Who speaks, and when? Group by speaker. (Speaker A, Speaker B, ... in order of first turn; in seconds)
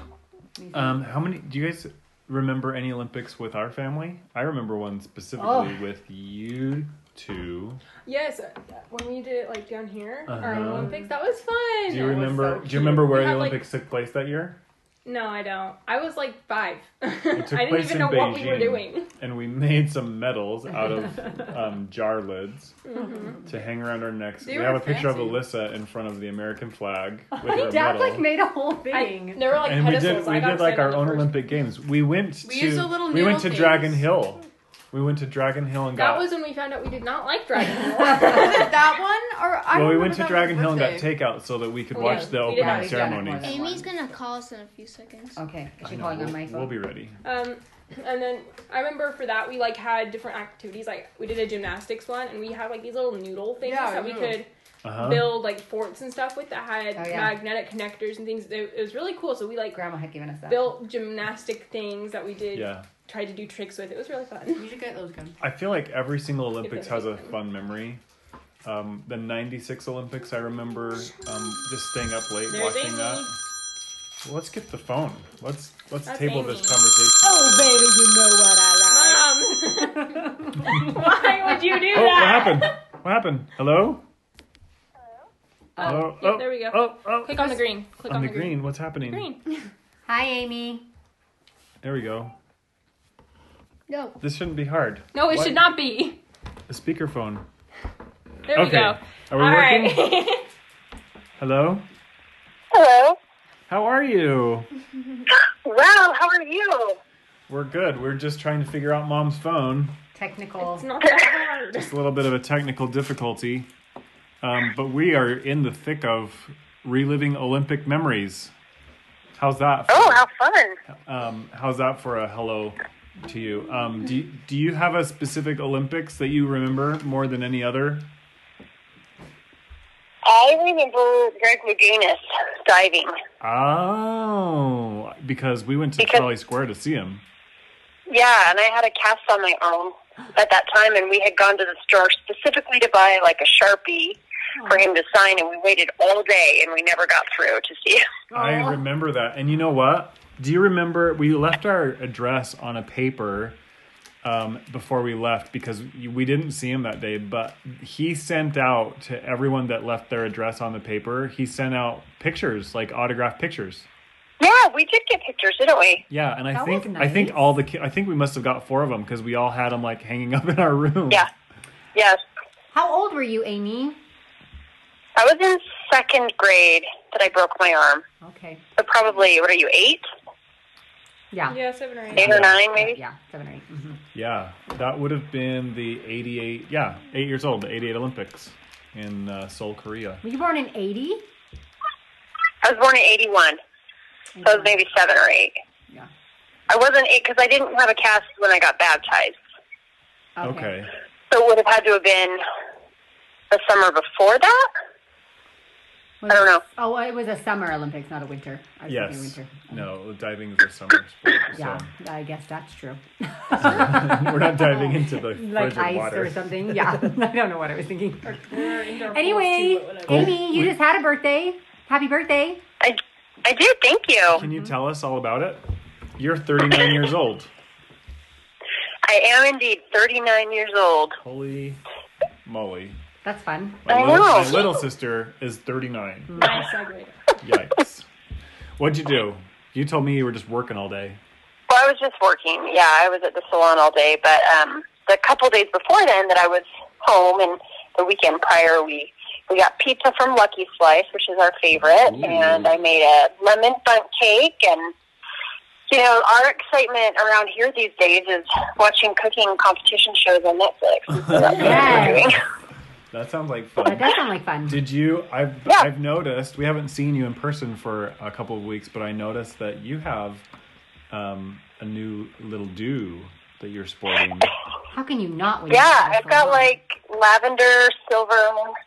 Speaker A: 0.6-1.0, 5.4-5.7, 27.3-29.5, 42.0-44.1, 45.4-46.8, 57.0-57.4, 59.7-60.8, 77.2-80.7, 90.1-90.8, 110.1-110.8, 144.6-144.8, 148.3-148.7, 166.5-167.6, 172.7-174.0, 178.2-178.6, 181.3-181.6, 182.1-184.0, 190.2-191.2, 194.3-194.7, 200.3-200.7, 206.2-209.8, 211.5-218.4, 219.1-222.6, 224.4-224.7, 233.2-233.8, 261.5-262.3, 263.8-264.8, 274.9-276.7
Speaker B: 0.7-7.8, 10.3-11.0, 11.9-14.6, 17.3-22.8, 23.4-28.3, 29.5-36.3, 39.7-43.5, 45.8-47.2, 54.8-55.4, 62.5-62.9, 65.4-68.0, 68.6-73.3, 74.2-78.0, 81.9-84.0, 85.8-89.3, 91.8-92.3, 94.2-95.7, 96.7-97.4, 98.5-100.1, 101.4-101.8, 103.7-104.7, 107.5-110.0, 111.7-113.7, 114.4-118.5, 119.3-120.2, 121.0-128.1, 133.4-137.2, 148.3-153.6, 154.2-163.9, 166.1-171.2, 182.1-182.6, 184.1-190.2, 200.4-200.9, 208.9-211.9, 213.6-217.0, 220.1-220.7, 224.3-225.6, 226.2-227.5, 231.2-231.8, 232.4-233.0, 233.8-236.6, 237.4-238.1, 238.8-241.2, 252.1-252.7, 261.2-262.4, 263.1-264.1, 264.6-270.4, 271.1-274.5
Speaker C: 8.0-13.7, 15.0-19.1, 22.8-23.4, 28.9-31.4, 35.9-38.8, 41.9-43.3, 47.2-59.8, 60.5-64.7, 66.6-67.3, 72.5-73.3, 76.0-76.8, 78.9-82.8, 85.8-89.4, 95.1-96.2, 98.5-100.5, 110.6-111.9, 181.5-182.3, 218.2-220.4, 236.4-237.2
Speaker D: 24.4-25.4, 32.4-34.2, 38.2-41.1, 53.6-54.4, 64.5-65.4
Speaker E: 43.4-45.4, 93.9-94.2
Speaker F: 102.7-103.2, 105.3-107.0, 119.9-120.8, 130.2-133.2, 136.0-136.3, 138.1-148.0, 164.4-166.0, 175.2-178.0, 178.8-180.0, 182.1-183.0, 192.6-193.6, 194.4-195.5, 196.7-199.4, 201.3-202.4, 203.5-204.7, 206.3-206.6, 222.8-224.4, 229.0-231.2, 233.9-234.8, 241.7-254.9, 255.9-262.4, 275.7-278.7